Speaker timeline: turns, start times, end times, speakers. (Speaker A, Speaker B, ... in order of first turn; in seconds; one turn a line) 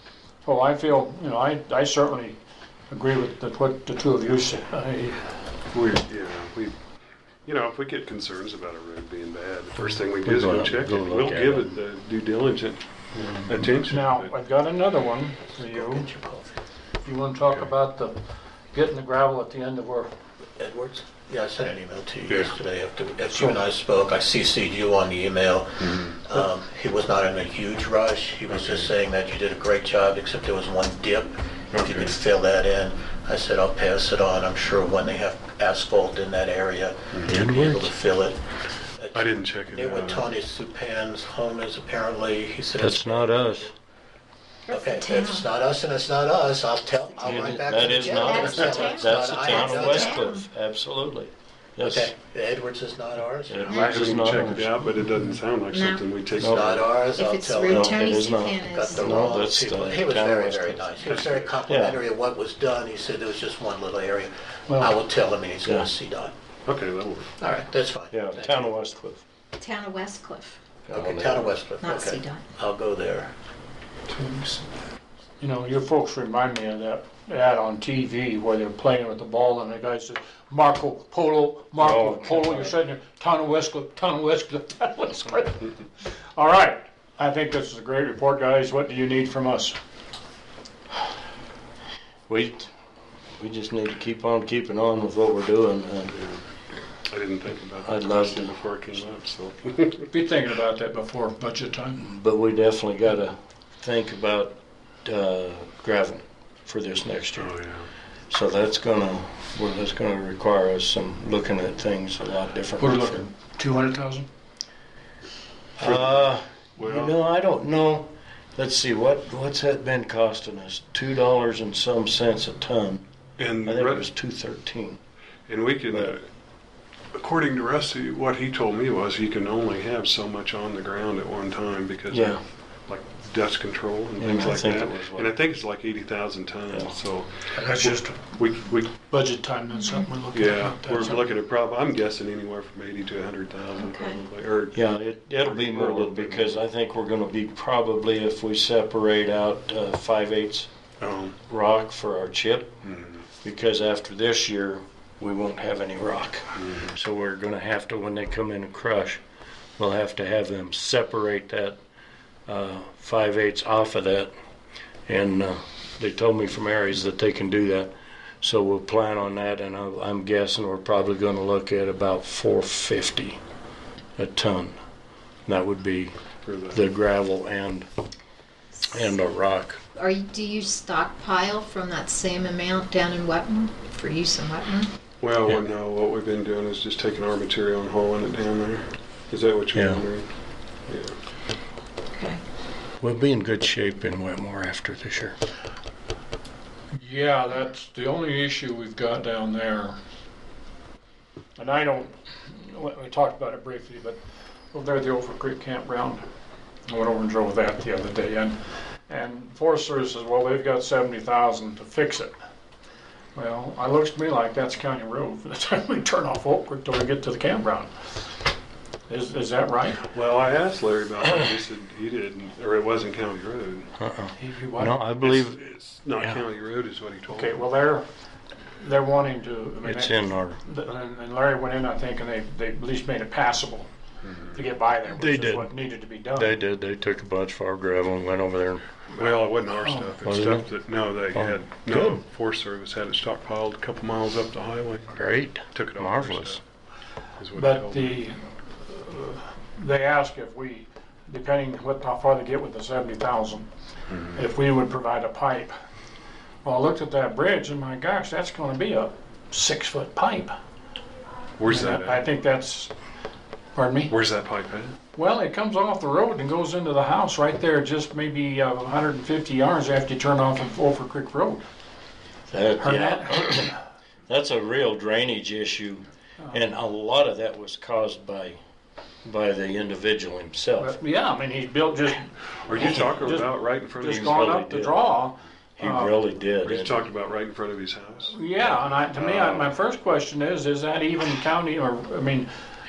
Speaker A: 0.5-2.4
Speaker A: 2.9-5.3
Speaker B: 5.7-6.8
Speaker B: 7.5-14.3
Speaker C: 9.9-11.8
Speaker A: 13.9-16.1
Speaker D: 15.7-16.5
Speaker A: 17.0-18.1
Speaker A: 18.7-20.1
Speaker D: 20.6-38.4
Speaker B: 22.3-22.6
Speaker A: 23.3-23.6
Speaker B: 25.8-26.2
Speaker B: 28.5-28.9
Speaker B: 31.7-32.2
Speaker B: 37.1-37.4
Speaker C: 37.3-37.9
Speaker D: 39.0-43.5
Speaker B: 39.1-40.3
Speaker C: 42.8-43.7
Speaker E: 44.7-45.5
Speaker D: 44.7-50.3
Speaker C: 47.2-52.1
Speaker E: 47.9-50.4
Speaker D: 51.8-53.8
Speaker C: 53.5-54.8
Speaker B: 53.6-57.0
Speaker E: 53.7-54.0
Speaker E: 55.7-56.1
Speaker C: 56.4-56.8
Speaker D: 56.4-66.3
Speaker E: 57.1-59.4
Speaker C: 57.7-61.1
Speaker B: 61.1-61.5
Speaker C: 61.6-62.0
Speaker A: 64.7-64.9
Speaker C: 65.6-65.9
Speaker B: 66.7-67.3
Speaker D: 67.4-68.7
Speaker C: 68.1-69.2
Speaker E: 69.6-70.6
Speaker C: 70.9-71.5
Speaker D: 70.9-73.3
Speaker E: 71.8-72.5
Speaker B: 74.1-74.7
Speaker A: 75.4-89.8
Speaker C: 81.8-82.8
Speaker C: 92.3-92.7
Speaker C: 93.4-96.2
Speaker B: 96.2-96.4
Speaker B: 97.1-100.1
Speaker C: 97.8-98.5
Speaker A: 100.1-102.0
Speaker C: 102.0-107.5
Speaker B: 107.4-107.9
Speaker C: 108.3-113.2
Speaker A: 112.8-114.3
Speaker C: 115.8-123.0
Speaker B: 115.8-117.1
Speaker B: 123.4-124.1
Speaker C: 123.6-125.0
Speaker B: 125.5-126.3
Speaker B: 127.2-138.9
Speaker C: 132.1-132.4
Speaker C: 134.2-135.3
Speaker A: 137.5-138.3
Speaker A: 139.0-141.3
Speaker B: 140.3-144.8
Speaker E: 143.8-144.2
Speaker C: 144.7-150.7
Speaker B: 145.4-146.5
Speaker B: 151.0-151.4
Speaker C: 151.5-152.8
Speaker B: 152.8-153.2
Speaker C: 153.4-159.2
Speaker B: 156.6-156.9
Speaker C: 159.8-161.8
Speaker C: 162.5-164.3
Speaker C: 165.1-173.4
Speaker C: 174.2-174.8
Speaker C: 175.5-176.2
Speaker B: 176.4-176.8
Speaker C: 176.7-177.9
Speaker C: 178.9-179.8
Speaker E: 180.0-184.9
Speaker B: 185.2-190.3
Speaker C: 189.7-190.0
Speaker B: 190.9-191.2
Speaker E: 192.1-192.4
Speaker C: 193.0-195.4
Speaker A: 196.9-200.0
Speaker A: 201.6-204.2
Speaker A: 204.7-206.2
Speaker A: 206.9-208.6
Speaker A: 209.1-212.3
Speaker A: 213.3-218.2
Speaker A: 219.1-220.0
Speaker B: 220.1-223.9
Speaker C: 224.0-225.6
Speaker A: 224.4-224.9
Speaker B: 225.2-227.6
Speaker A: 227.3-228.1
Speaker A: 228.8-233.9
Speaker C: 229.8-230.6
Speaker B: 234.2-234.6
Speaker A: 234.5-236.6
Speaker C: 235.1-235.7
Speaker C: 236.4-238.9
Speaker B: 239.1-246.6
Speaker A: 239.8-240.1
Speaker C: 240.2-240.7
Speaker C: 241.3-242.2
Speaker C: 245.1-246.6
Speaker B: 247.4-248.2
Speaker A: 247.6-253.7
Speaker B: 254.1-254.4
Speaker A: 254.3-255.7
Speaker A: 256.6-260.6
Speaker B: 261.6-262.2
Speaker A: 261.7-262.9
Speaker A: 263.8-264.1
Speaker B: 264.1-265.0
Speaker A: 265.1-271.6
Speaker C: 272.5-273.8
Speaker A: 272.8-273.8
Speaker C: 274.3-278.6
Speaker C: 279.3-281.0
Speaker A: 280.8-286.2
Speaker B: 282.7-284.3
Speaker C: 282.8-283.1
Speaker C: 284.0-285.1
Speaker C: 285.8-287.0
Speaker B: 286.6-288.4
Speaker A: 288.3-292.5
Speaker B: 289.1-289.7